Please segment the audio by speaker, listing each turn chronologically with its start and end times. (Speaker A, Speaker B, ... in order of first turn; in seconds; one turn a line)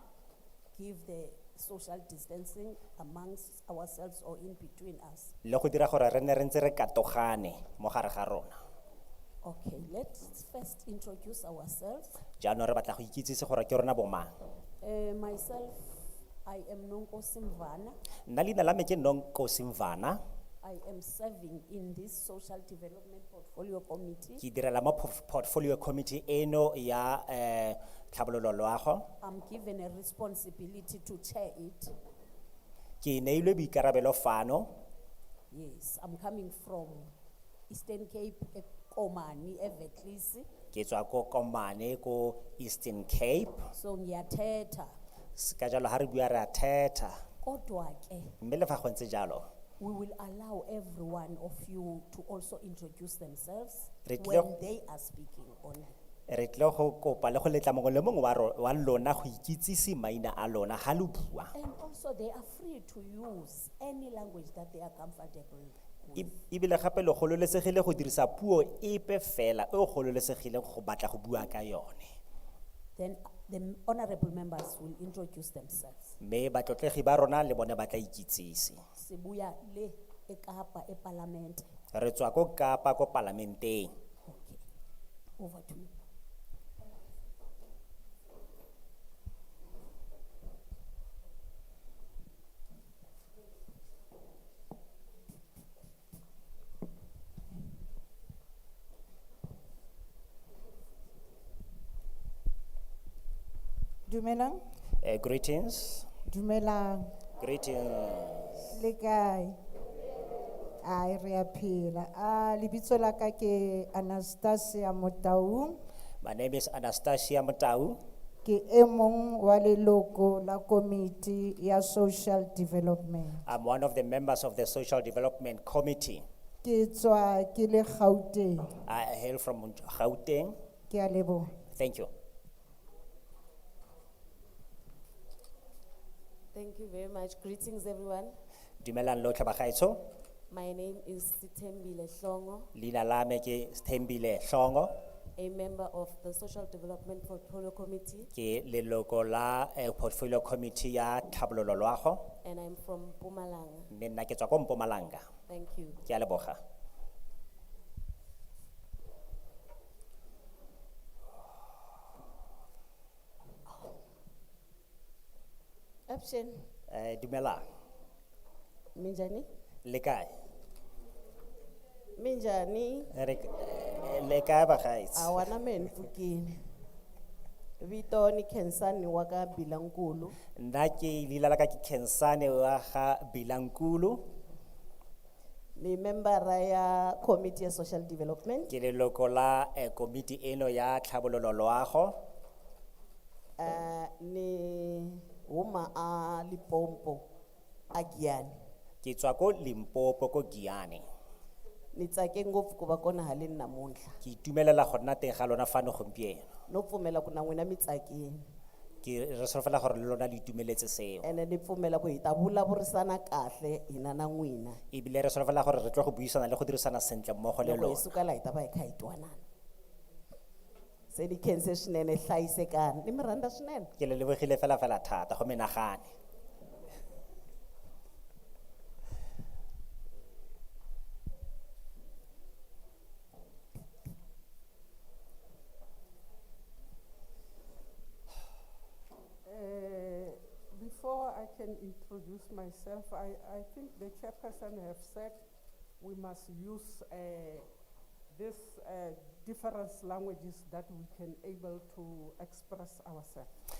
Speaker A: 0.7-5.3
Speaker B: 5.4-8.6
Speaker A: 9.4-12.2
Speaker B: 12.4-14.3
Speaker A: 14.8-17.9
Speaker B: 18.3-20.2
Speaker A: 20.6-24.4
Speaker B: 24.4-29.1
Speaker A: 29.2-31.9
Speaker B: 33.0-34.7
Speaker A: 35.5-37.1
Speaker A: 37.7-40.5
Speaker B: 40.7-43.6
Speaker A: 43.7-44.9
Speaker B: 45.4-47.2
Speaker A: 47.4-48.4
Speaker B: 48.4-49.5
Speaker A: 49.8-55.9
Speaker B: 54.0-54.5
Speaker B: 56.3-61.5
Speaker A: 61.5-66.3
Speaker B: 66.2-72.1
Speaker A: 73.0-76.1
Speaker B: 76.2-78.8
Speaker A: 79.0-81.7
Speaker B: 81.9-83.9
Speaker A: 84.2-84.6
Speaker A: 85.4-85.9
Speaker C: 104.1-104.6
Speaker B: 105.0-106.1
Speaker C: 106.3-107.1
Speaker B: 107.4-108.7
Speaker C: 108.7-109.6
Speaker C: 110.8-115.8
Speaker B: 116.2-118.0
Speaker C: 118.4-123.4
Speaker B: 123.4-126.2
Speaker C: 126.6-128.7
Speaker B: 128.8-130.5
Speaker C: 130.9-131.5
Speaker B: 131.7-132.1
Speaker D: 136.5-138.3
Speaker B: 138.8-140.0
Speaker D: 140.5-142.7
Speaker B: 142.7-144.9
Speaker D: 145.4-148.3
Speaker B: 148.3-152.2
Speaker D: 152.4-153.9
Speaker B: 153.9-155.2
Speaker D: 155.5-156.0
Speaker B: 156.1-156.6
Speaker D: 166.1-166.7
Speaker B: 166.9-167.7
Speaker D: 168.9-169.5
Speaker B: 169.8-170.3
Speaker D: 172.2-173.1
Speaker B: 173.1-175.4
Speaker D: 175.1-176.6
Speaker D: 177.8-180.3
Speaker B: 180.6-184.2
Speaker D: 185.8-188.7
Speaker B: 188.7-192.1
Speaker D: 193.6-197.2
Speaker D: 197.9-198.5
Speaker B: 199.0-201.0
Speaker D: 201.9-204.2
Speaker B: 204.2-206.5
Speaker D: 206.7-208.4
Speaker B: 209.0-211.3
Speaker D: 211.2-214.8
Speaker B: 214.9-218.1
Speaker D: 217.6-219.4
Speaker D: 221.1-223.9
Speaker B: 224.0-226.1
Speaker E: 239.4-245.4
Speaker E: 246.0-247.7
Speaker E: 248.3-253.5